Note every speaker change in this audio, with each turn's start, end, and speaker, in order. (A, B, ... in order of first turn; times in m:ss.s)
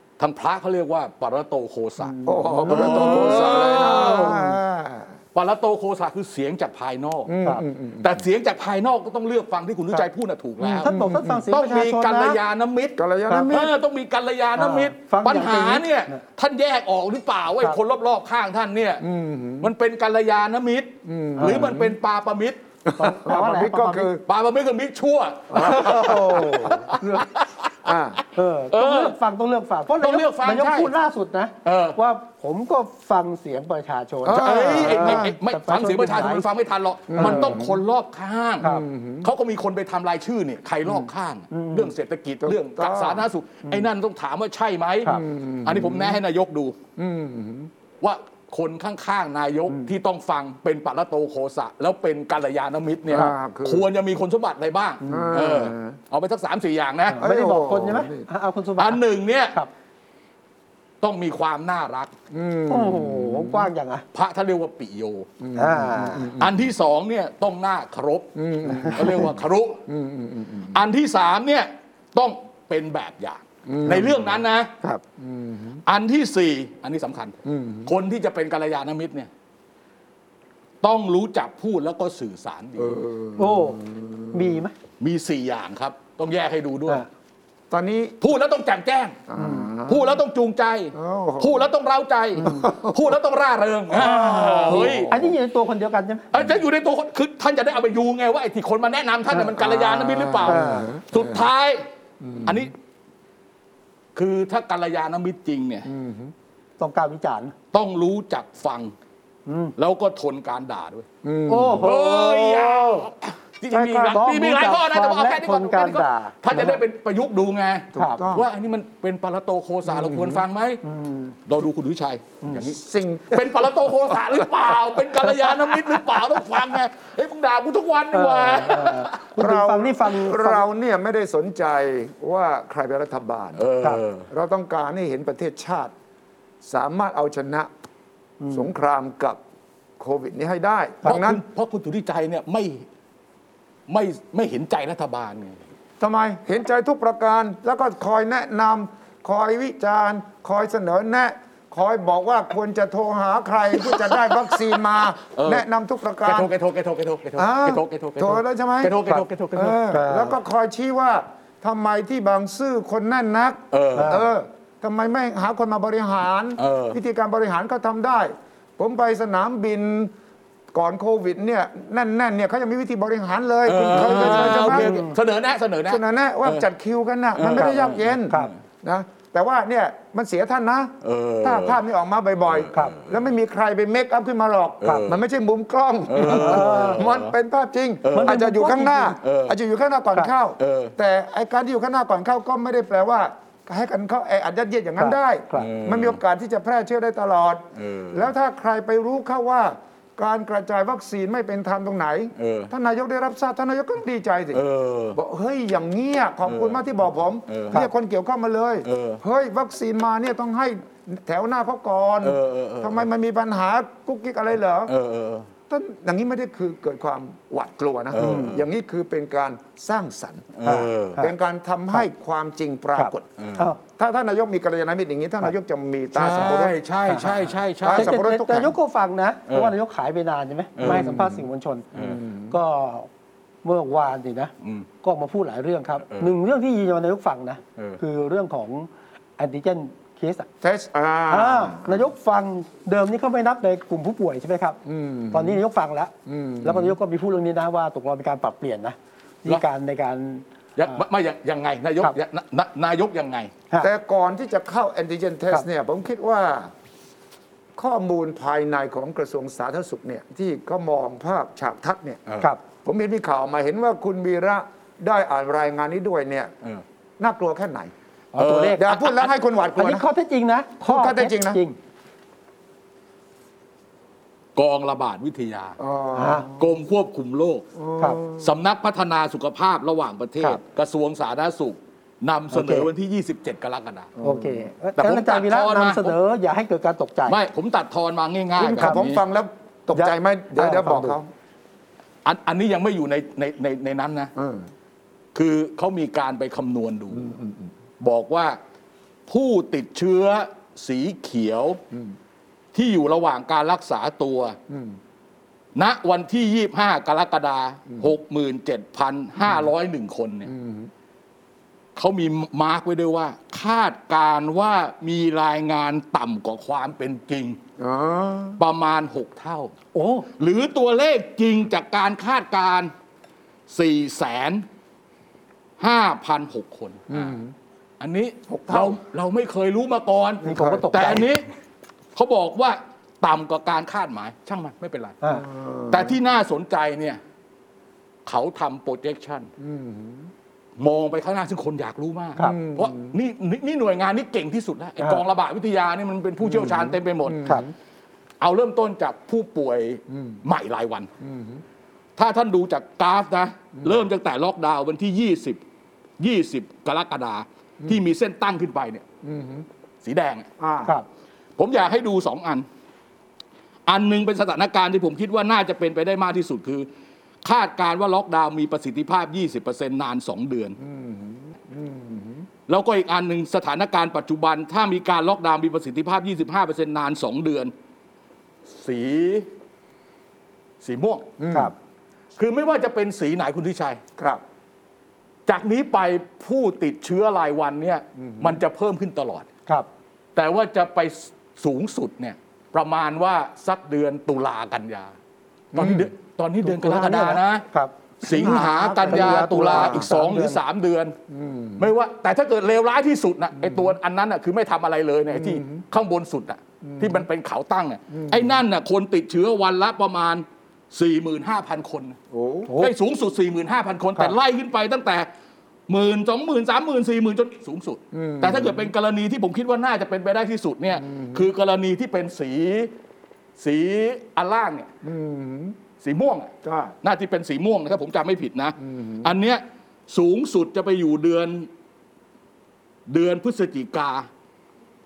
0:00.2-0:02.1 A
0:02.0-0:04.5 B
0:02.2-0:05.1 C
0:02.7-0:04.4 A
0:05.3-0:07.3 A
0:07.3-0:08.2 C
0:08.0-0:10.9 A
0:10.7-0:11.4 C
0:10.8-0:12.4 B
0:11.5-0:13.0 A
0:13.0-0:13.7 C
0:13.5-0:19.0 A
0:14.6-0:16.2 B
0:19.0-0:19.7 C
0:19.6-0:22.6 A
0:21.0-0:22.0 C
0:21.4-0:21.8 B
0:22.8-0:24.2 C
0:23.0-0:24.1 B
0:24.3-0:27.9 A
0:25.5-0:26.7 C
0:25.5-0:27.3 B
0:27.8-0:28.2 C
0:28.3-0:36.4 B
0:28.7-0:29.2 A
0:30.0-0:30.9 A
0:31.6-0:32.0 A
0:34.2-0:35.4 C
0:34.3-0:38.7 A
0:37.1-0:37.8 C
0:37.2-0:37.6 B
0:38.6-0:39.3 C
0:39.2-0:46.7 A
0:41.5-0:41.9 B
0:42.4-0:43.2 C
0:45.0-0:46.2 C
0:47.0-0:47.7 C
0:48.0-0:57.2 A
0:53.1-0:53.8 C
0:55.0-0:55.3 B
0:55.1-0:56.0 C
0:57.1-0:59.0 B
0:57.2-0:58.2 C
0:58.8-0:59.6 A
1:01.0-1:02.1 A
1:02.3-1:03.7 C
1:02.7-1:04.0 B
1:04.1-1:05.3 A
1:05.4-1:06.6 C
1:05.6-1:06.3 B
1:06.4-1:09.8 A
1:08.4-1:10.8 C
1:10.7-1:14.7 A
1:13.6-1:14.4 C
1:15.2-1:15.8 C
1:15.8-1:19.3 A
1:17.4-1:17.9 C
1:20.8-1:23.0 A
1:22.8-1:24.6 C
1:23.4-1:23.8 B
1:24.3-1:24.7 B
1:25.0-1:27.0 A
1:27.7-1:28.2 C
1:28.2-1:29.2 A
1:29.3-1:30.2 C
1:29.4-1:29.7 B
1:29.9-1:35.2 A
1:30.9-1:31.6 C
1:32.4-1:33.0 C
1:33.9-1:35.3 C
1:33.9-1:36.3 B
1:36.3-1:41.8 A
1:39.6-1:41.4 C
1:40.4-1:40.9 B
1:42.2-1:42.7 C
1:42.4-1:42.7 A
1:44.2-1:45.9 A
1:45.8-1:46.3 C
1:46.8-1:47.5 B
1:47.7-1:48.9 A
1:49.5-1:49.7 B
1:49.8-1:51.0 A
1:51.2-1:51.9 C
1:51.5-1:53.0 B
1:51.8-2:00.8 A
1:53.7-1:54.2 C
1:53.9-1:56.8 B
1:57.9-1:58.5 C
1:58.0-1:58.2 B
1:59.9-2:00.4 C
2:00.8-2:01.4 B
2:01.4-2:02.8 A
2:02.6-2:04.8 C
2:03.3-2:09.3 A
2:08.1-2:10.6 B
2:09.4-2:13.6 C
2:13.6-2:14.3 A
2:14.3-2:15.9 C
2:16.6-2:17.7 C
2:18.4-2:18.7 B
2:18.5-2:19.4 C
2:20.0-2:21.4 C
2:21.0-2:22.8 A
2:23.9-2:25.6 A
2:26.0-2:36.5 C
2:33.8-2:34.6 A
2:35.3-2:35.6 A
2:36.2-2:39.8 A
2:37.4-2:39.0 C
2:39.5-2:50.1 C
2:39.9-2:40.4 B
2:43.7-2:44.2 A
2:43.9-2:44.2 B
2:46.6-2:47.0 A
2:50.7-2:55.0 C
2:53.6-2:56.6 A
2:53.9-2:55.1 B
2:55.9-3:34.9 C
2:57.4-2:58.5 A
2:57.6-2:58.5 B
3:01.0-3:01.8 A
3:02.5-3:03.2 A
3:04.8-3:05.2 A
3:04.8-3:05.1 B
3:06.1-3:07.3 A
3:06.2-3:07.0 B
3:08.0-3:08.4 A
3:08.1-3:09.2 B
3:09.2-3:09.6 A
3:10.6-3:10.9 A
3:15.0-3:15.7 B
3:15.5-3:16.2 A
3:17.8-3:18.3 A
3:22.4-3:22.7 A
3:24.5-3:25.2 A
3:26.5-3:26.8 A
3:27.5-3:27.8 A
3:28.8-3:29.2 A
3:32.2-3:33.0 A
3:34.9-3:35.5 A
3:35.7-3:40.5 C
3:38.1-3:38.6 A
3:38.2-3:38.6 B
3:40.5-3:41.3 A
3:40.6-3:41.3 B
3:41.2-3:46.8 C
3:43.0-3:43.8 B
3:43.4-3:43.7 A
3:46.1-3:48.2 A
3:46.2-3:46.5 B
3:47.1-3:47.4 B
3:47.8-3:48.7 C
3:47.9-3:51.9 B
3:49.5-3:49.7 A
3:50.8-3:51.2 A
3:50.8-3:52.6 C
3:51.9-3:52.2 A
3:52.5-3:53.1 B
3:53.6-4:00.5 B
3:54.6-3:54.9 A
3:56.1-3:56.3 A
4:00.6-4:02.0 C
4:01.3-4:04.8 B
4:04.8-4:05.6 C
4:05.3-4:10.4 B
4:06.2-4:07.0 C
4:10.8-4:13.5 A
4:13.8-4:16.7 C
4:17.8-4:22.2 C
4:22.8-4:26.5 C
4:27.2-4:27.9 C
4:28.3-4:28.9 B
4:28.4-4:29.3 A
4:28.7-4:30.0 C
4:29.8-4:31.8 B
4:30.8-4:31.6 C
4:34.6-4:35.8 A
4:35.8-4:36.6 C
4:36.2-4:36.5 B
4:36.6-4:37.6 A
4:37.8-4:38.5 C
4:38.3-4:44.1 A
4:42.5-4:42.9 B
4:44.2-4:44.7 C
4:44.2-4:47.4 B
4:45.0-4:46.2 A
4:47.3-4:49.2 A
4:48.6-4:51.3 C
4:49.9-4:51.2 B
4:52.2-4:54.3 A
4:54.3-4:54.7 C
4:55.3-4:57.3 A
4:57.1-4:57.7 C
4:58.0-4:58.6 A
4:59.3-5:01.8 A
5:02.7-5:04.6 A
5:04.7-5:05.0 C
5:05.7-5:10.5 A
5:10.5-5:10.9 C
5:12.0-5:17.6 A
5:17.8-5:18.6 C
5:18.6-5:19.7 A
5:19.9-5:20.3 B
5:20.4-5:22.9 A
5:23.7-5:24.6 A
5:25.8-5:27.4 A
5:27.1-5:27.5 C
5:28.0-5:31.4 A
5:28.5-5:29.0 C
5:30.4-5:31.3 B
5:30.4-5:30.9 C
5:32.1-5:35.2 A
5:35.3-5:36.1 C
5:35.9-5:37.2 A
5:38.2-5:39.5 A
5:39.6-5:40.3 C
5:40.8-5:47.6 A
5:42.4-5:43.1 C
5:46.4-5:47.7 C
5:48.4-5:51.1 A
5:51.2-5:51.6 C
5:52.2-5:55.6 A
5:56.2-5:59.0 A
5:59.2-5:59.6 C
6:00.0-6:00.5 A
6:00.6-6:00.9 C
6:01.6-6:02.6 A
6:03.9-6:06.9 A
6:07.4-6:10.8 A
6:10.8-6:12.4 C
6:12.7-6:17.7 A
6:18.7-6:19.5 A
6:20.8-6:21.3 A
6:21.4-6:21.7 C
6:22.4-6:24.0 A
6:24.2-6:24.4 C
6:25.5-6:29.5 A
6:28.2-6:28.6 C
6:30.3-6:35.1 A
6:35.7-6:37.6 A
6:35.8-6:36.1 C
6:36.6-6:40.6 B
6:38.2-6:41.1 A
6:38.3-6:40.1 C
6:41.3-6:41.9 C
6:41.8-6:52.2 A
6:43.6-6:43.9 C
6:45.3-6:45.8 C
6:46.8-6:47.2 C
6:48.1-6:48.6 C
6:52.3-6:52.7 C
6:52.7-6:52.9 B
6:52.8-6:55.3 A
6:55.9-7:02.9 A
6:58.1-6:58.9 C
7:01.0-7:01.5 C
7:03.6-7:04.9 A
7:05.0-7:05.8 C
7:06.0-7:06.5 A
7:06.6-7:06.9 C
7:07.0-7:11.7 A
7:08.8-7:09.3 C
7:13.1-7:14.3 A